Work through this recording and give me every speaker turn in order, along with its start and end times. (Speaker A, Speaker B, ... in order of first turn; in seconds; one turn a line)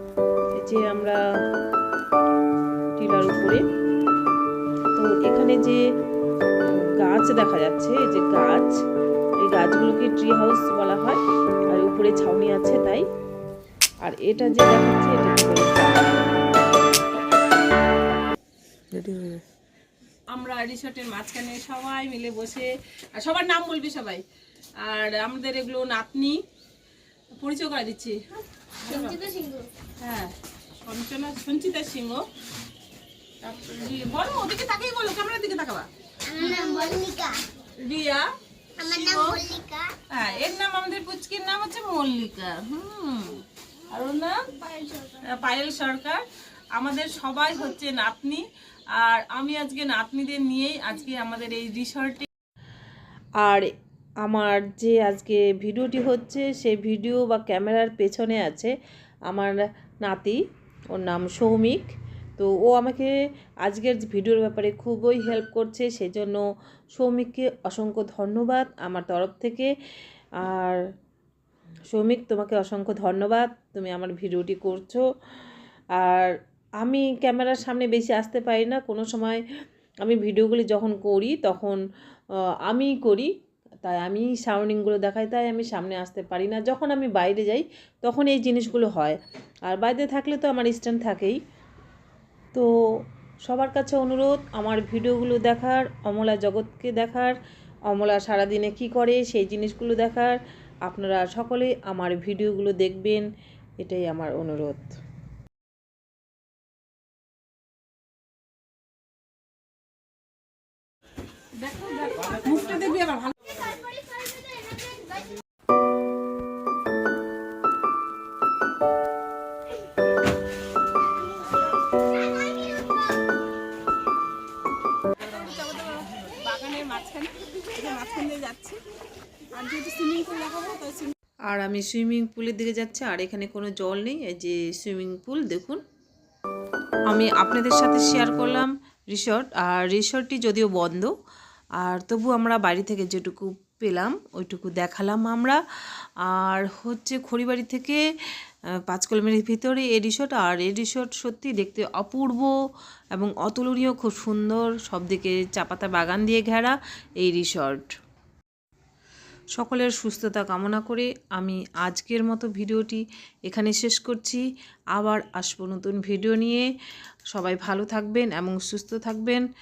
Speaker A: 0.6-1.2
Speaker A: 3.0-3.6
Speaker A: 5.0-5.8
Speaker A: 6.6-8.7
Speaker A: 9.4-11.2
Speaker A: 11.7-13.0
Speaker A: 14.0-16.3
Speaker A: 18.9-19.4
Speaker B: 20.3-24.2
Speaker B: 24.8-26.4
Speaker B: 27.4-28.2
Speaker B: 28.8-29.2
Speaker C: 28.9-29.7
Speaker B: 30.0-32.2
Speaker B: 33.4-36.9
Speaker C: 36.3-37.5
Speaker B: 37.7-39.4
Speaker C: 38.8-39.9
Speaker B: 40.1-44.5
Speaker C: 44.5-45.3
Speaker B: 45.2-48.4
Speaker B: 48.9-52.2
Speaker A: 53.4-53.7
Speaker A: 54.2-58.7
Speaker A: 59.3-60.4
Speaker A: 60.9-63.1
Speaker A: 63.6-66.4
Speaker A: 66.9-69.7
Speaker A: 70.4-70.8
Speaker A: 71.9-75.0
Speaker A: 76.0-79.4
Speaker A: 80.0-81.8
Speaker A: 82.6-83.3
Speaker A: 83.8-91.4
Speaker A: 93.4-97.3
Speaker A: 97.9-103.2
Speaker A: 103.8-104.9
Speaker B: 111.6-113.6
Speaker C: 113.5-115.3
Speaker C: 122.2-122.8
Speaker B: 125.2-128.8
Speaker B: 129.5-131.1
Speaker A: 131.5-135.8
Speaker A: 137.1-141.1
Speaker A: 141.8-148.0
Speaker A: 148.8-152.5
Speaker A: 153.1-157.9
Speaker A: 159.6-164.4
Speaker A: 164.9-166.7
Speaker A: 167.3-169.4